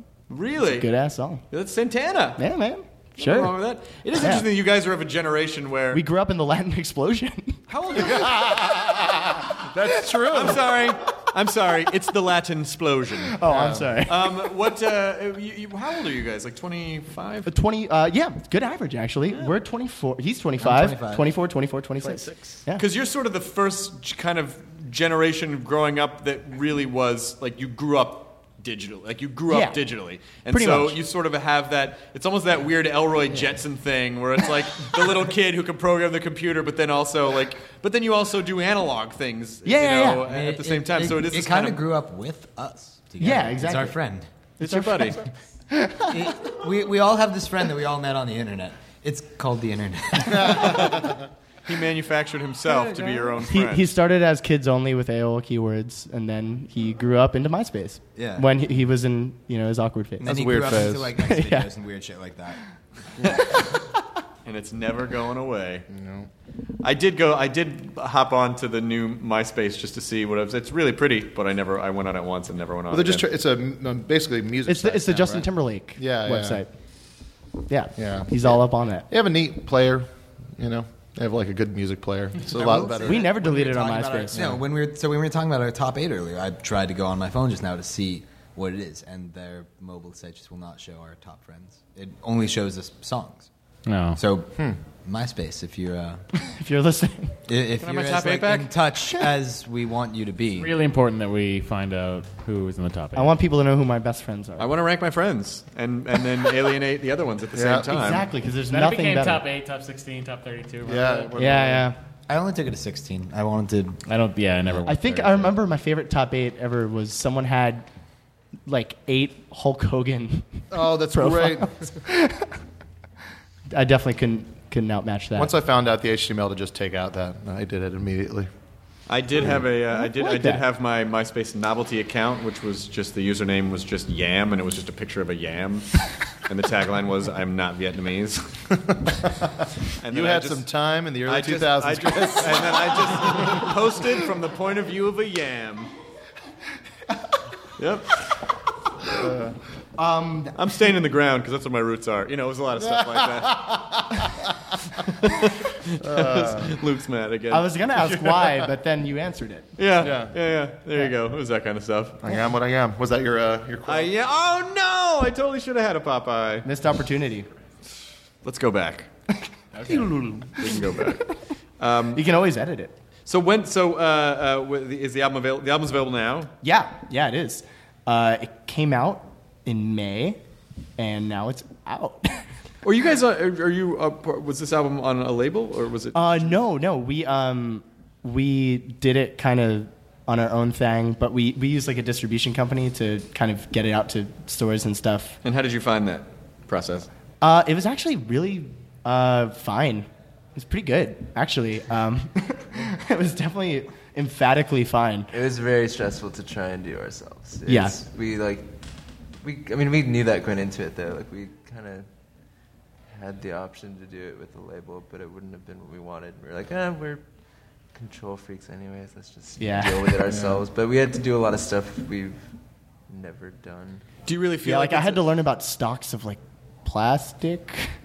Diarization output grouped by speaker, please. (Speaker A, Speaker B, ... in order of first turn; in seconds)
Speaker A: 0.3-0.9, 1.5-2.4, 3.2-6.0, 7.7-8.8, 10.2-13.4, 14.1-17.5, 22.8-41.8, 44.6-45.2, 50.5-51.1, 51.7-53.9, 64.5-65.9, 66.8-73.3, 97.8-98.7, 104.6-108.3, 129.1-138.5, 140.0-140.7, 141.2-145.9, 147.8-148.3, 150.6-153.8, 155.1-157.8, 159.8-162.2, 163.9-166.7, 168.4-169.1, 170.6-172.2, 173.3-176.5, 182.8-186.6, 195.4-197.1, 224.3-225.3
Speaker B: 0.6-1.4, 2.4-3.6, 4.2-4.5, 5.9-7.6, 13.3-14.3, 17.4-22.8, 29.5-29.8, 30.5-31.0, 39.6-40.3, 43.2-44.0, 44.6-46.2, 53.4-60.3, 61.2-61.7, 63.4-63.7, 74.7-76.7, 77.7-79.0, 83.0-84.4, 96.4-97.3, 103.1-104.7, 107.9-109.5, 111.4-112.0, 114.9-117.9, 118.7-122.5, 123.7-125.5, 129.9-130.6, 150.0-150.6, 157.5-159.7, 166.6-167.5, 169.8-171.0, 172.1-172.9, 176.6-180.4, 181.0-182.4, 186.1-195.4, 197.4-205.3, 207.7-208.0, 219.6-220.1, 224.6-227.9
Speaker C: 7.9-10.9, 13.4-14.0, 50.5-51.1, 60.2-61.1, 65.9-66.3, 72.9-76.6, 78.0-83.3, 107.5-107.9, 110.8-111.9, 120.7-121.9, 125.4-128.5, 140.1-143.7, 149.1-149.6, 152.9-154.5, 156.0-156.8, 160.0-160.3, 162.2-164.1, 220.3-220.6
Speaker D: 20.6-21.3, 40.2-44.3, 46.1-51.0, 52.7-53.3, 58.2-58.5, 60.2-62.6, 82.5-93.5, 94.1-96.2, 97.5-100.7, 112.3-114.0
Speaker E: 93.9-94.2, 100.6-103.4, 108.7-111.5, 114.1-115.5, 169.8-170.1
Speaker F: 205.3-208.7, 209.4-212.1, 213.1-217.2, 217.9-222.5, 223.1-224.0